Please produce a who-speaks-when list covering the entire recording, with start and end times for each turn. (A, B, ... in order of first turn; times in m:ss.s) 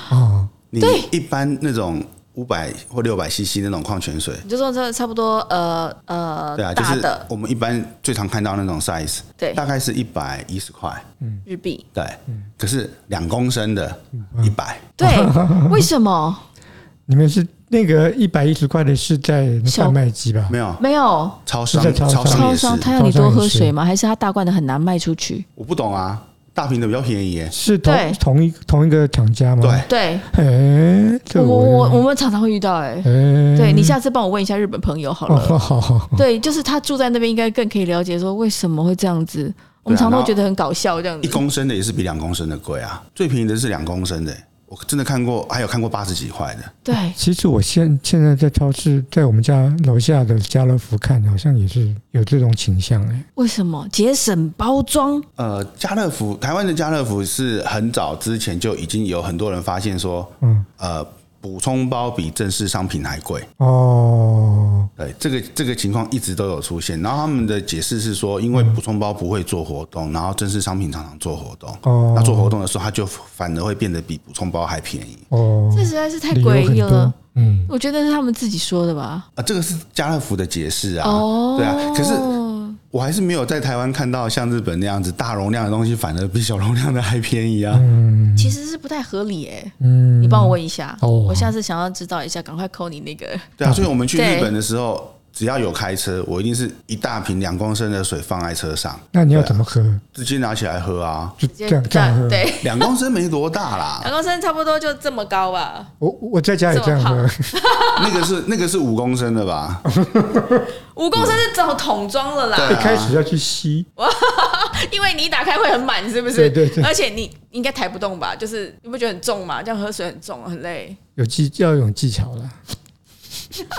0:00.1-0:00.5 A
0:00.7-0:04.4 B
0:00.8-0:01.1 C
0:04.4-0:07.3 C
0:06.6-0:11.1 B
0:11.5-0:11.8 C
0:12.0-0:14.9 B
0:14.2-0:15.9 A
0:15.0-0:16.4 C
0:17.1-0:20.6 A
0:19.7-0:20.0 C
0:20.5-0:20.8 B
0:20.8-0:21.4 C
0:21.5-0:22.9 B
0:21.7-0:23.7 A
0:22.3-0:25.4 C
0:25.6-0:27.5 B
0:27.5-0:32.0 A
0:27.8-0:28.2 C
0:29.6-0:29.9 B
0:29.9-0:30.3 C
0:31.4-0:41.4 C
0:33.0-0:34.0 A
0:35.3-0:36.2 A
0:39.9-0:40.4 B
0:41.2-0:46.8 B
0:46.9-0:47.2 C
0:46.9-0:53.3 A
0:53.4-0:55.3 C
0:55.4-1:03.5 B
1:00.4-1:00.7 A
1:03.6-1:04.9 A
1:05.0-1:15.3 B
1:11.8-1:12.5 A
1:15.3-1:17.7 A
1:15.7-1:17.2 C
1:17.7-1:19.3 C
1:19.4-1:22.4 B
1:21.0-1:22.8 C
1:22.9-1:27.9 B
1:27.7-1:28.6 A
1:28.4-1:33.5 C
1:29.8-1:31.5 A
1:33.6-1:39.6 B
1:33.6-1:33.9 A
1:34.1-1:34.5 C
1:39.1-1:40.0 A
1:40.1-1:41.4 B
1:41.4-1:42.5 A
1:41.5-1:42.9 C
1:42.6-1:44.1 B
1:44.0-1:45.9 C
1:46.0-1:47.5 A
1:46.7-1:48.2 C
1:48.0-1:49.9 B
1:49.9-1:50.7 A
1:51.0-1:52.9 C
1:52.6-1:53.2 B
1:52.7-1:53.9 A
1:54.0-2:01.0 C
1:56.3-1:56.9 A
2:01.2-2:02.6 A